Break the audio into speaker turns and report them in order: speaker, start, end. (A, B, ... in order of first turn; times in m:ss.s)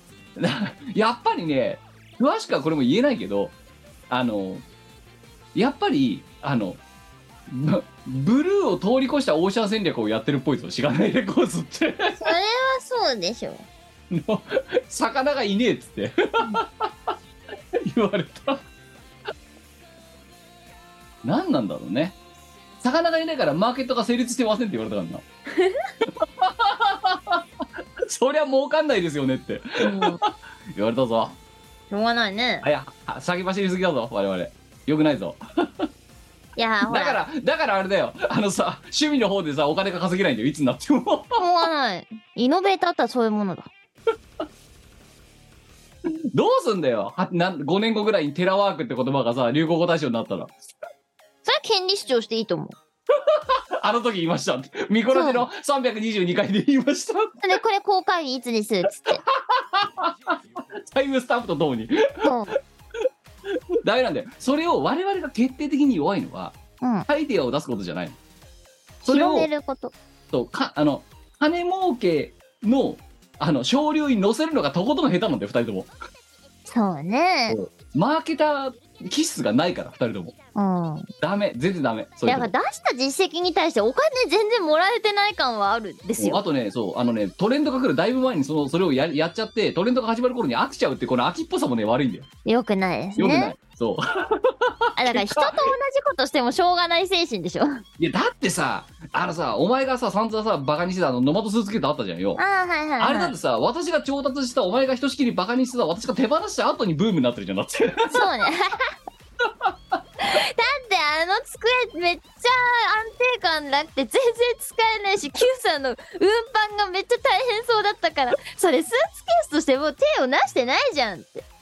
0:00.4-0:03.6 A
0:04.1-0:04.6 A
0:05.5-0:06.8 A
0:07.5-0:12.3 A
0:12.2-0:13.7 B
0:14.1-0:17.1 A
0:17.8-0:18.6 A
0:21.2-0:22.2 A
0:22.8-0:25.2 A
0:26.0-0:27.4 A
0:28.0-0:31.4 A
0:29.8-0:30.2 B
0:31.9-0:32.7 B
0:32.6-0:35.9 A
0:36.6-0:37.2 B
0:36.8-0:41.4 A
0:41.4-0:43.7 B
0:46.1-0:50.6 A
0:51.4-0:52.8 B
0:53.2-0:57.4 A
0:55.1-0:55.4 B
0:57.4-0:59.2 B
0:59.1-1:02.4 A
1:02.2-1:02.6 B
1:03.5-1:06.6 A
1:06.8-1:07.1 B
1:07.1-1:08.2 A
1:09.0-1:09.5 A
1:09.0-1:10.0 B
1:10.3-1:15.9 A
1:16.7-1:17.6 B
1:17.5-1:20.3 A
1:20.6-1:21.1 B
1:21.2-1:22.5 A
1:22.3-1:26.4 B
1:26.2-1:32.3 A
1:32.4-1:33.6 B
1:33.2-1:35.7 A
1:35.0-1:37.8 B
1:38.0-1:42.4 A
1:42.4-1:43.4 B
1:43.0-1:48.3 A
1:48.1-1:49.0 B
1:49.4-1:50.0 A
1:50.2-2:01.4 B